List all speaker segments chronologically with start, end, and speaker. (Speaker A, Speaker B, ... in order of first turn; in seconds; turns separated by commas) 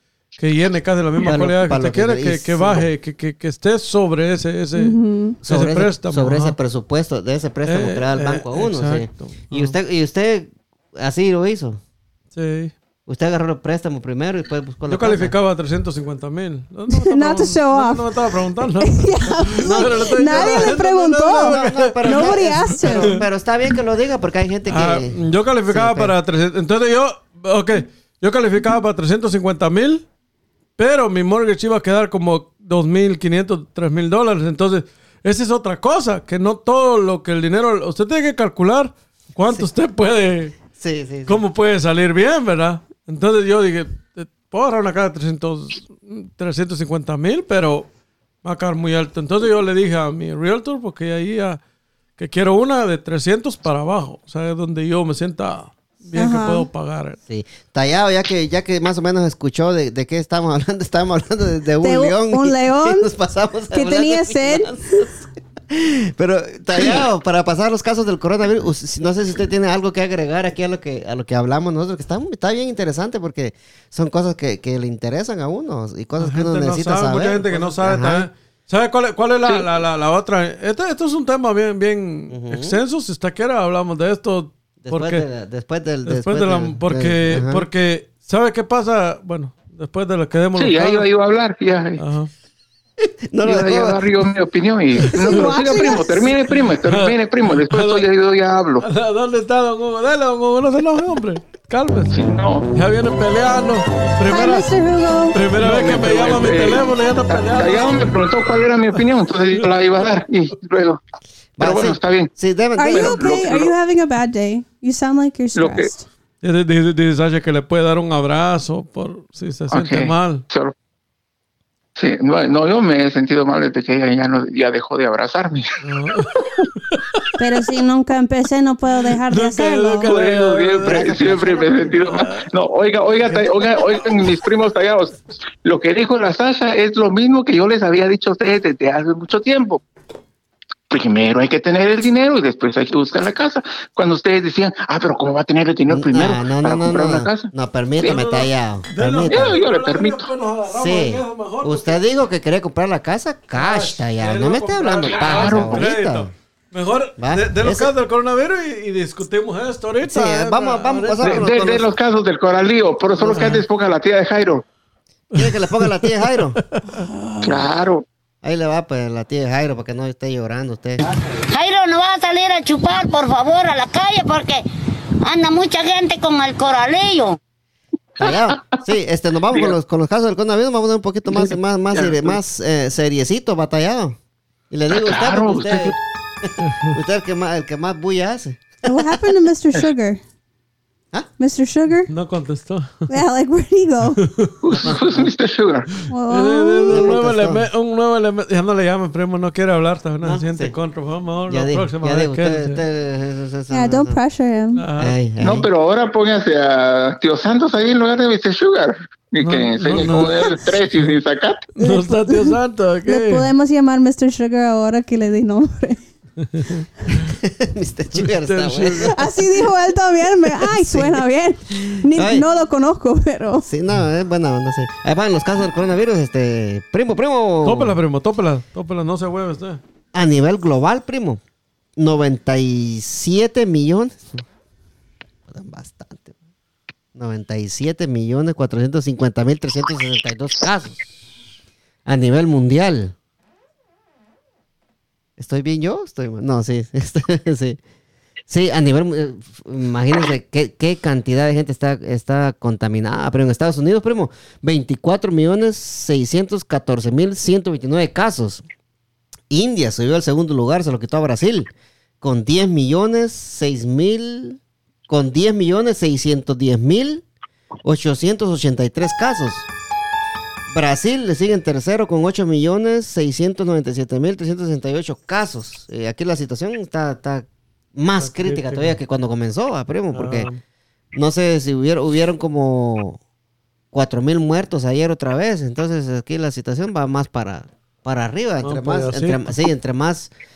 Speaker A: 0.4-6.6, Speaker B: 1.2-2.9, Speaker C: 4.8-5.4, Speaker B: 5.4-11.8, Speaker A: 7.7-9.8, Speaker A: 12.3-12.7, Speaker B: 13.1-15.3, Speaker A: 14.9-23.2, Speaker C: 16.9-23.2, Speaker B: 19.6-26.1, Speaker A: 24.7-30.1, Speaker A: 30.8-40.6, Speaker B: 40.7-41.4, Speaker A: 41.3-47.9, Speaker A: 48.4-51.6, Speaker A: 52.2-57.2, Speaker C: 56.1-56.7, Speaker B: 57.3-65.1, Speaker C: 61.8-63.1, Speaker C: 63.7-65.0, Speaker B: 65.7-78.3, Speaker A: 76.2-85.3, Speaker B: 82.3-82.8, Speaker B: 84.8-87.7, Speaker A: 86.1-91.1, Speaker D: 90.6-92.0, Speaker A: 92.0-92.3, Speaker B: 93.0-94.0, Speaker D: 93.4-98.9, Speaker C: 95.1-96.4, Speaker A: 96.8-98.1, Speaker A: 98.8-104.8, Speaker D: 102.1-102.7, Speaker C: 104.3-105.4, Speaker A: 105.3-108.2, Speaker D: 105.6-111.0, Speaker A: 109.0-109.7, Speaker B: 111.6-113.4, Speaker D: 111.6-112.3, Speaker C: 112.8-116.1, Speaker D: 112.9-113.7, Speaker D: 115.5-115.9, Speaker A: 116.4-120.5, Speaker D: 119.7-120.7, Speaker D: 122.0-125.7, Speaker A: 125.8-126.3, Speaker A: 126.9-127.2, Speaker C: 127.4-130.1, Speaker A: 129.3-131.2, Speaker D: 130.0-139.8, Speaker B: 130.8-132.1, Speaker A: 131.9-132.5, Speaker A: 133.2-134.3, Speaker D: 140.9-148.4, Speaker B: 145.9-149.6, Speaker A: 148.0-152.0, Speaker D: 149.3-150.3, Speaker B: 150.7-156.3, Speaker A: 153.5-161.5, Speaker D: 155.1-155.8, Speaker B: 157.2-157.9, Speaker B: 160.0-161.9, Speaker D: 161.2-164.6, Speaker A: 163.2-163.6, Speaker A: 165.3-167.7, Speaker B: 165.3-166.6, Speaker D: 167.4-168.1, Speaker B: 168.4-171.0, Speaker E: 171.5-174.6, Speaker E: 175.2-177.4, Speaker B: 178.2-184.2, Speaker D: 178.2-178.6, Speaker D: 181.3-182.4, Speaker B: 184.7-189.0, Speaker D: 184.9-186.0, Speaker A: 186.6-187.0, Speaker C: 188.8-190.2, Speaker C: 191.4-192.1, Speaker A: 192.1-193.1, Speaker C: 193.1-194.2, Speaker A: 194.2-194.6, Speaker D: 194.6-195.9, Speaker B: 194.8-195.3, Speaker C: 196.1-197.2, Speaker A: 196.3-202.8, Speaker B: 196.9-197.7, Speaker B: 200.2-200.7, Speaker B: 201.5-204.2, Speaker C: 203.7-204.8, Speaker A: 204.8-205.2, Speaker B: 205.0-205.7, Speaker D: 205.4-211.6, Speaker A: 209.4-211.2, Speaker A: 211.8-213.5, Speaker C: 211.8-216.0, Speaker A: 216.4-216.9, Speaker B: 217.3-219.2, Speaker A: 218.2-219.3, Speaker C: 219.1-223.7, Speaker B: 220.8-222.5, Speaker B: 223.6-228.0, Speaker A: 227.6-229.8, Speaker B: 230.1-231.4, Speaker B: 232.0-234.4, Speaker B: 235.5-236.3, Speaker B: 237.2-241.1, Speaker B: 242.1-243.2, Speaker B: 245.4-247.8, Speaker B: 248.5-258.6, Speaker B: 259.5-267.2, Speaker B: 267.8-269.7, Speaker B: 270.7-280.5, Speaker A: 278.2-279.0, Speaker A: 280.1-280.6, Speaker B: 281.1-283.2, Speaker B: 283.9-290.3, Speaker A: 288.6-289.5